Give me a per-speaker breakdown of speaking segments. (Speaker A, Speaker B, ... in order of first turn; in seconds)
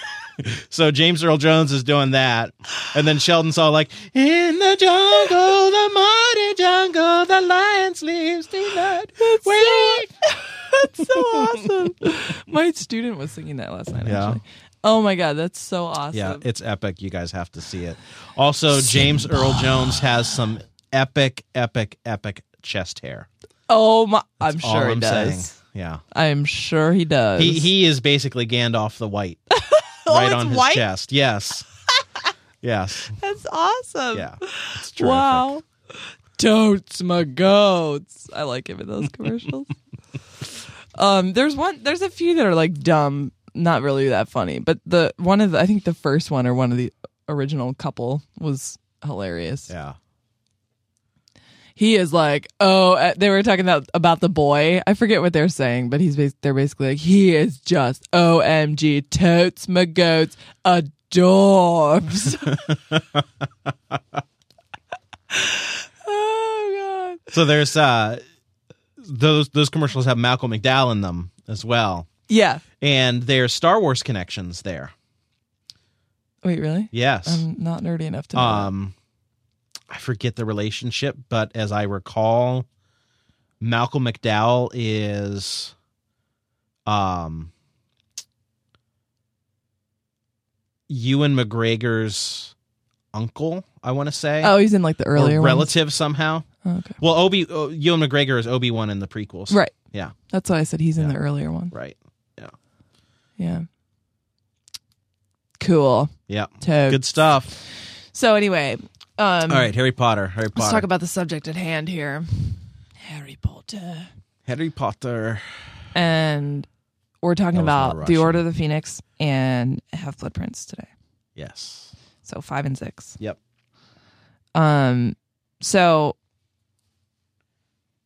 Speaker A: 0.4-10.1, 11.0-11.8, 14.0-14.4, 16.1-23.3, 24.4-26.0, 27.4-29.4, 30.1-31.7, 32.6-33.2, 34.1-35.5, 49.7-50.0, 62.5-63.2, 67.3-68.2, 69.0-72.1, 72.8-74.9, 76.9-77.5, 78.3-79.0, 79.9-82.7, 83.6-85.7, 86.9-87.5, 90.9-92.5, 93.1-94.5, 95.1-96.5, 97.0-100.2, 101.7-102.5, 106.3-107.5, 109.5-110.9, 114.5-115.8, 117.5-118.4, 121.4-121.9
Speaker B: 9.2-16.4, 18.8-20.0, 23.7-25.5, 26.1-27.7, 29.5-30.9, 33.2-35.6, 36.4-39.8, 41.0-49.7, 51.8-62.7, 65.3-67.2, 72.3-72.6, 76.4-78.7, 94.4-95.7, 96.6-97.0, 100.3-101.7, 103.4-103.7, 105.6-109.7, 110.5-114.1, 115.9-116.7, 117.2-120.9, 122.2-123.2, 124.5-126.2